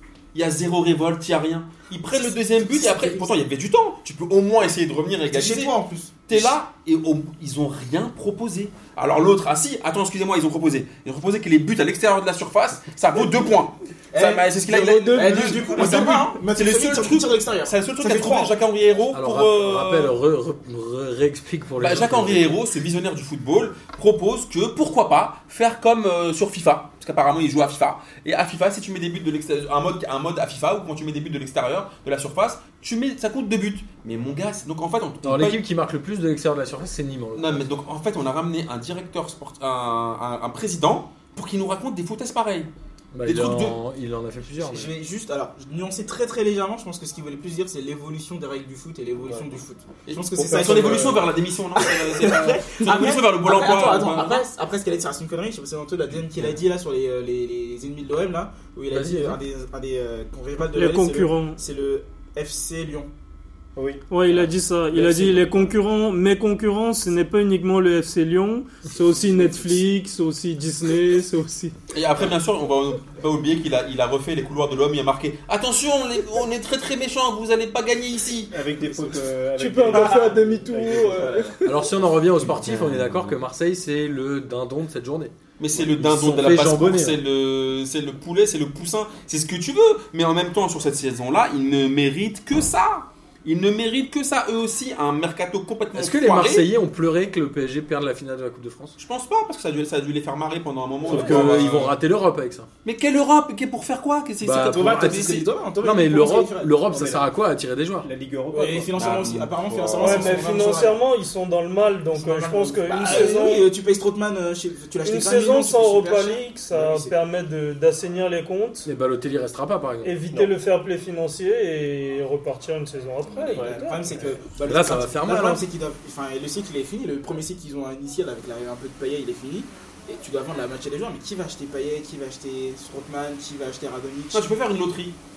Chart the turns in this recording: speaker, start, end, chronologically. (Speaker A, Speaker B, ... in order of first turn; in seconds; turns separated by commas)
Speaker A: 0.3-5.7, Speaker B: 2.1-3.3, Speaker B: 5.3-6.5, Speaker A: 6.3-20.1, Speaker B: 13.2-13.5, Speaker B: 14.1-18.5, Speaker C: 19.1-22.5, Speaker A: 21.8-35.6, Speaker C: 35.2-37.7, Speaker A: 37.4-42.7, Speaker C: 43.1-44.9, Speaker A: 43.2-43.8, Speaker B: 44.6-63.1, Speaker A: 50.1-54.5, Speaker C: 50.4-51.2, Speaker C: 58.9-59.4, Speaker D: 60.7-61.6, Speaker E: 63.8-64.0, Speaker D: 64.1-71.8, Speaker A: 71.9-78.5, Speaker E: 78.5-81.6, Speaker D: 79.6-81.2, Speaker B: 79.8-81.6, Speaker C: 81.7-87.2, Speaker A: 82.4-83.4, Speaker A: 85.6-96.7, Speaker C: 96.0-99.0, Speaker A: 99.0-102.0, Speaker B: 101.1-101.5, Speaker C: 101.1-102.7, Speaker E: 101.1-101.7, Speaker A: 102.8-105.5, Speaker C: 104.4-108.1, Speaker B: 104.7-106.8, Speaker E: 106.9-107.3, Speaker E: 108.0-109.0, Speaker B: 108.5-111.0, Speaker A: 109.0-110.5, Speaker D: 110.0-113.7, Speaker B: 112.1-117.1, Speaker D: 115.0-118.9, Speaker C: 118.8-120.2, Speaker D: 120.0-124.2, Speaker B: 123.4-134.5, Speaker C: 124.7-125.7, Speaker A: 134.3-135.2